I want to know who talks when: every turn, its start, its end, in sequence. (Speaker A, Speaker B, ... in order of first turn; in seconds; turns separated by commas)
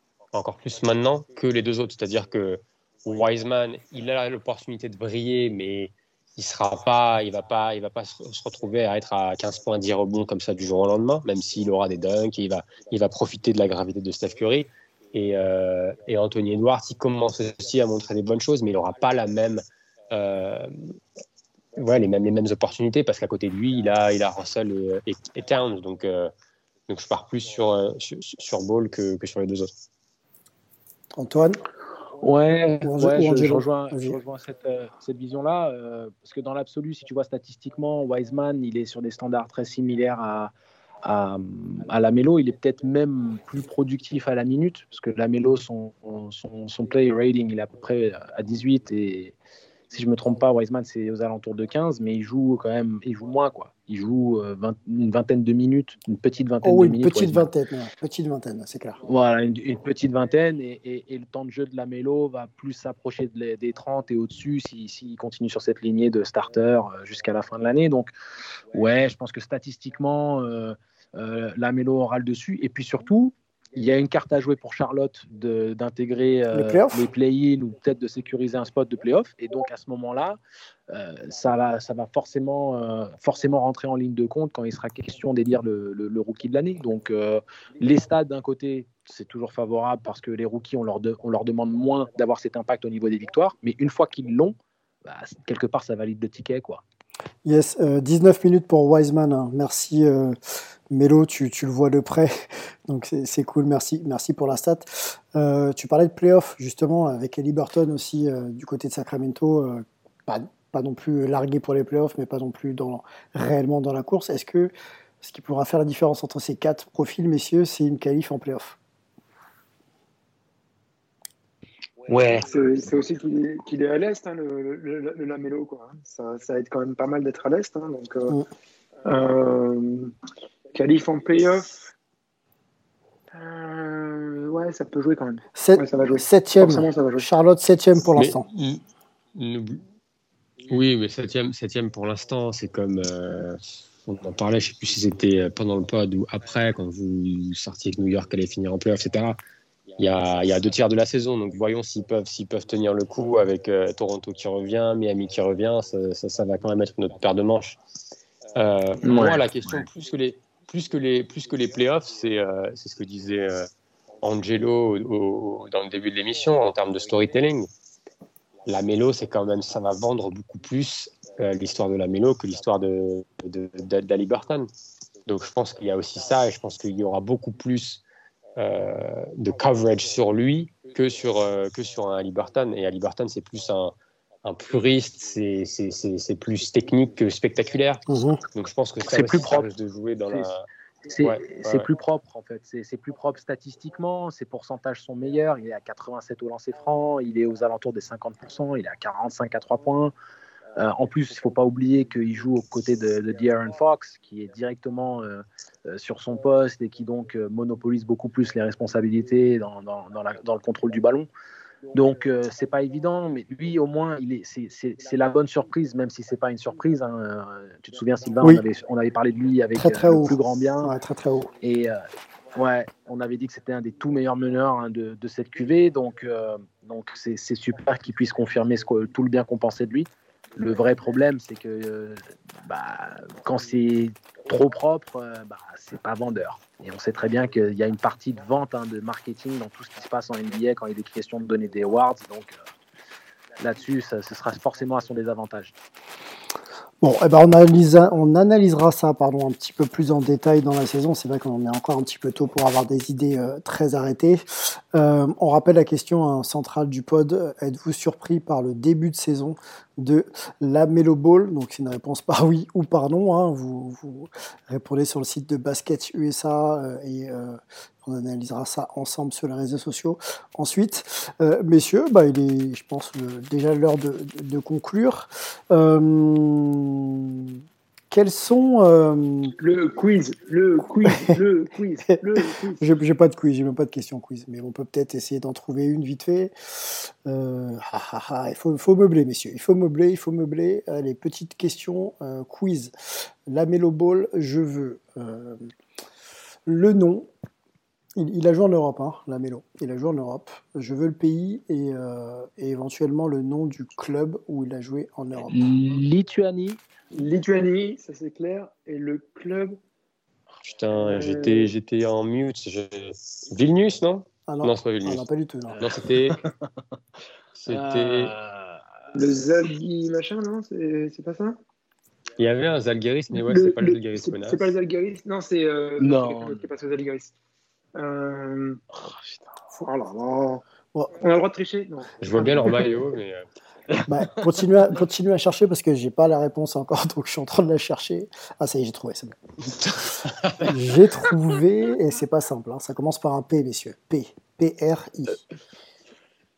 Speaker A: 0.3-21.0, Speaker A: 21.8-26.3, Speaker A: 26.9-29.7, Speaker B: 31.2-31.6, Speaker C: 32.2-40.5, Speaker B: 32.8-34.2, Speaker C: 41.0-49.4, Speaker C: 49.9-57.5, Speaker B: 56.6-59.0, Speaker C: 59.1-68.1, Speaker C: 68.7-80.4, Speaker B: 76.5-77.0, Speaker C: 80.9-96.8, Speaker B: 97.5-118.8, Speaker C: 122.1-122.5, Speaker D: 122.3-128.4, Speaker D: 129.0-130.1, Speaker D: 130.7-131.7, Speaker D: 133.3-137.3, Speaker B: 135.6-138.5, Speaker A: 138.2-138.8, Speaker A: 139.3-139.8, Speaker A: 140.7-149.4, Speaker A: 150.0-157.8, Speaker A: 158.6-163.7, Speaker C: 159.0-159.4, Speaker A: 164.2-167.7, Speaker A: 168.7-174.7, Speaker A: 175.3-178.0, Speaker A: 178.6-190.7, Speaker B: 188.1-188.4, Speaker C: 189.1-189.7, Speaker C: 191.1-200.1, Speaker A: 191.2-191.9, Speaker C: 200.8-211.3, Speaker C: 211.9-220.9, Speaker B: 219.7-221.5, Speaker C: 221.6-222.0, Speaker C: 222.6-242.6, Speaker C: 243.6-245.8, Speaker B: 247.0-254.4, Speaker B: 254.9-277.6, Speaker B: 278.1-279.6, Speaker D: 279.6-282.8, Speaker B: 282.8-292.9, Speaker B: 293.5-295.7, Speaker B: 296.7-297.3, Speaker B: 298.2-305.7, Speaker C: 305.5-306.8, Speaker D: 307.1-309.8, Speaker A: 310.6-315.2, Speaker D: 310.9-311.7, Speaker B: 314.5-315.9, Speaker A: 315.8-316.4, Speaker C: 316.3-316.7, Speaker A: 317.6-318.4, Speaker C: 317.7-318.8, Speaker D: 319.1-321.6, Speaker A: 322.4-324.7, Speaker D: 323.3-327.3, Speaker C: 326.0-326.6, Speaker D: 328.0-328.8, Speaker C: 328.9-329.5, Speaker D: 329.8-330.6, Speaker D: 331.2-333.0, Speaker A: 332.2-333.5, Speaker C: 333.9-334.4, Speaker B: 334.1-339.4, Speaker B: 340.6-345.4